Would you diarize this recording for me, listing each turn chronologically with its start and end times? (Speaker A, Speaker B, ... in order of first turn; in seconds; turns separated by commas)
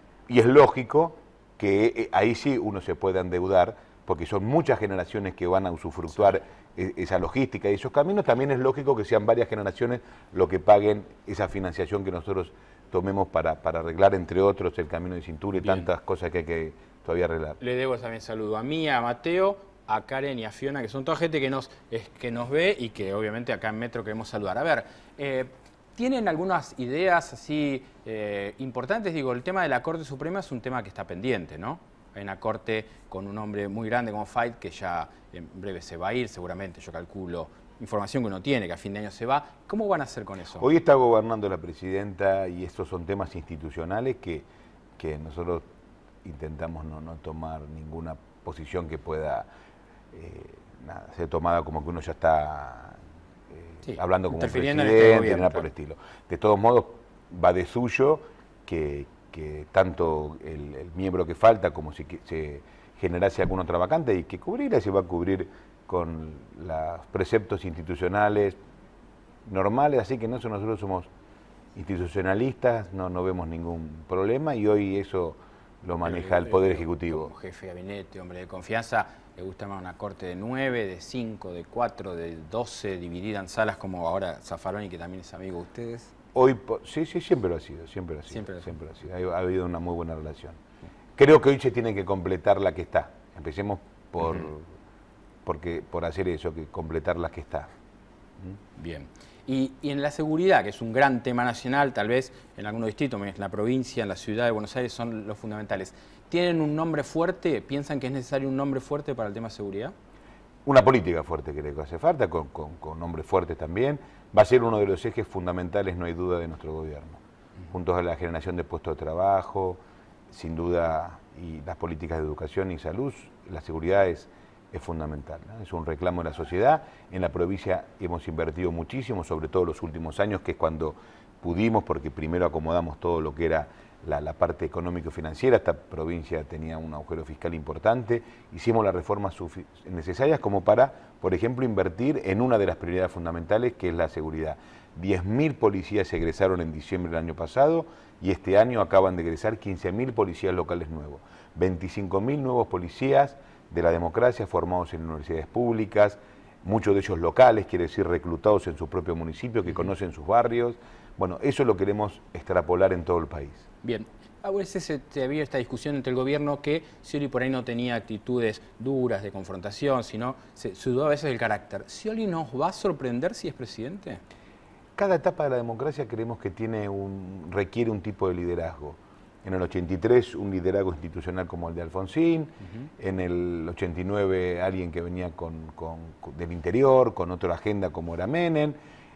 Speaker A: 0.3-17.6, Speaker B: 15.6-15.9, Speaker B: 17.6-40.7, Speaker A: 40.6-44.5, Speaker A: 45.0-45.7, Speaker A: 46.2-49.5, Speaker A: 50.1-53.0, Speaker A: 53.5-68.6, Speaker B: 53.9-55.6, Speaker A: 69.5-71.1, Speaker A: 71.8-77.3, Speaker B: 76.0-86.1, Speaker A: 86.3-90.6, Speaker B: 88.3-88.8, Speaker A: 91.2-94.7, Speaker A: 95.5-97.7, Speaker B: 98.8-110.0, Speaker A: 110.7-163.7, Speaker B: 163.8-174.2, Speaker A: 175.0-188.8